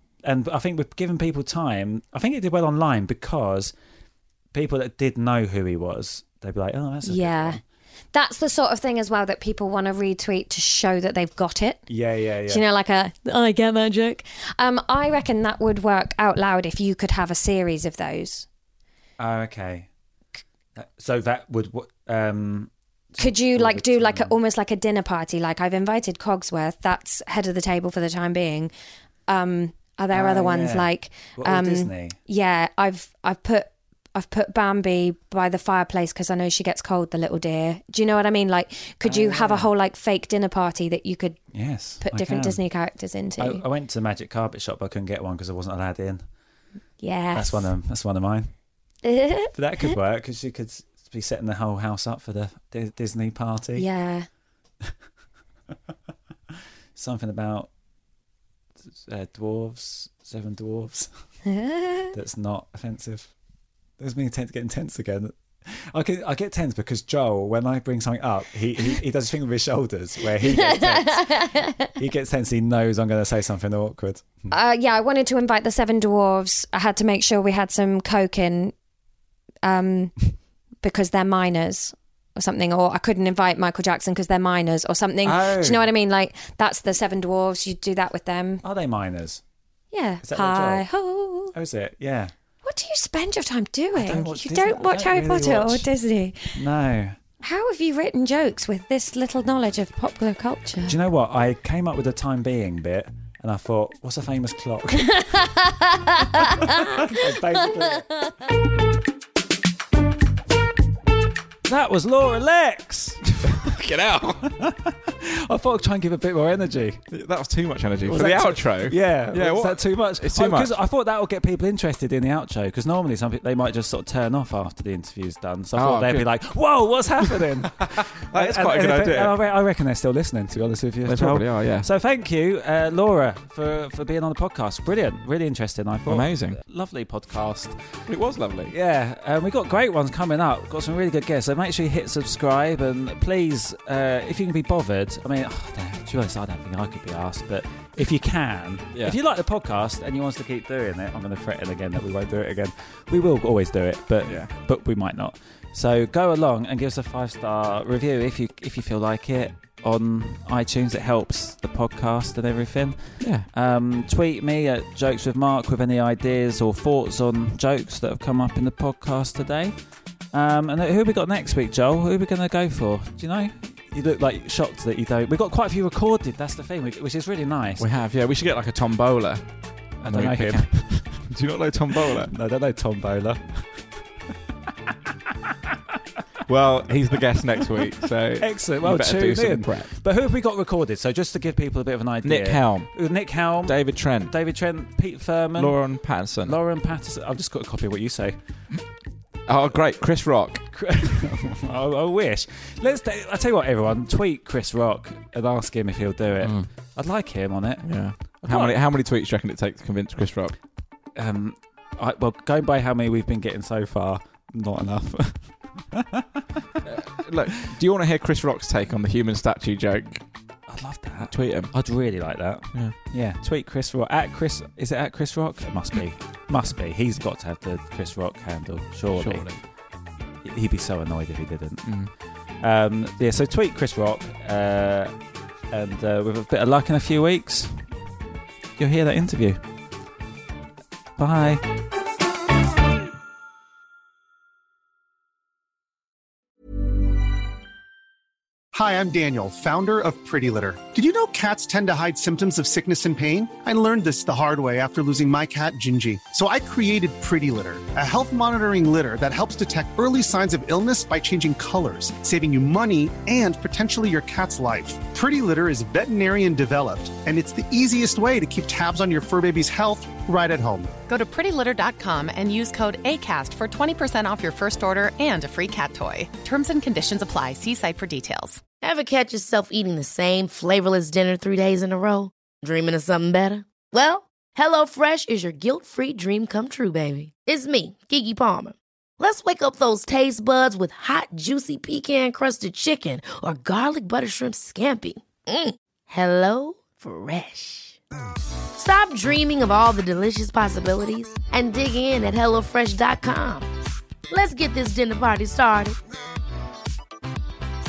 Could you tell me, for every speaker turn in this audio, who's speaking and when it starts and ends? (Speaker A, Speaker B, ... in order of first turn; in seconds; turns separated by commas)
Speaker A: 0.2-3.7, Speaker A: 4.5-7.6, Speaker B: 7.0-7.6, Speaker B: 8.1-11.9, Speaker A: 11.9-12.6, Speaker B: 12.5-18.5, Speaker A: 19.2-19.9, Speaker A: 20.8-24.3, Speaker B: 23.2-28.7, Speaker B: 29.3-41.4, Speaker A: 30.1-32.2, Speaker A: 39.0-39.7, Speaker A: 41.5-42.6, Speaker B: 42.0-43.6, Speaker A: 43.4-46.2, Speaker B: 47.0-47.7, Speaker A: 47.3-48.5, Speaker B: 49.0-49.9, Speaker A: 49.5-53.9, Speaker B: 53.8-54.3, Speaker A: 56.9-57.7, Speaker A: 59.0-61.2, Speaker B: 61.5-62.1, Speaker A: 62.1-63.3, Speaker A: 64.0-74.5, Speaker B: 70.4-71.9, Speaker B: 74.5-78.7, Speaker B: 79.6-80.1, Speaker B: 80.8-88.6, Speaker A: 85.2-85.9, Speaker A: 88.6-89.4, Speaker B: 89.9-91.5, Speaker A: 90.2-90.9, Speaker A: 91.5-92.3, Speaker B: 92.6-96.6, Speaker A: 93.9-95.9, Speaker A: 96.5-97.2, Speaker B: 97.4-101.0, Speaker A: 100.8-105.2, Speaker B: 105.1-106.9, Speaker A: 106.4-108.1, Speaker A: 111.7-113.4, Speaker C: 113.5-114.5, Speaker A: 114.5-117.0, Speaker C: 117.1-120.7, Speaker A: 118.1-138.0, Speaker C: 125.7-126.2, Speaker C: 127.3-129.3, Speaker C: 131.1-131.9, Speaker C: 136.1-136.6, Speaker C: 138.1-138.7, Speaker A: 138.7-169.7, Speaker C: 154.2-154.5, Speaker C: 163.2-163.5, Speaker A: 170.3-177.8, Speaker C: 177.8-182.3, Speaker A: 180.0-181.3, Speaker A: 182.2-184.0, Speaker C: 186.5-189.9, Speaker A: 188.4-198.7, Speaker C: 192.2-194.3, Speaker C: 195.6-196.5, Speaker C: 199.4-200.7, Speaker A: 200.7-208.8, Speaker C: 206.4-206.7, Speaker C: 207.8-210.6, Speaker A: 211.1-216.2, Speaker C: 217.0-220.2, Speaker A: 220.7-229.7, Speaker C: 221.3-221.7, Speaker C: 229.2-229.6, Speaker A: 230.4-235.1, Speaker C: 231.8-232.1, Speaker A: 235.7-237.9, Speaker A: 238.8-239.6, Speaker A: 241.2-241.6, Speaker D: 248.7-271.0, Speaker E: 271.1-278.6, Speaker F: 278.8-298.0, Speaker F: 298.7-303.7, Speaker F: 304.3-306.0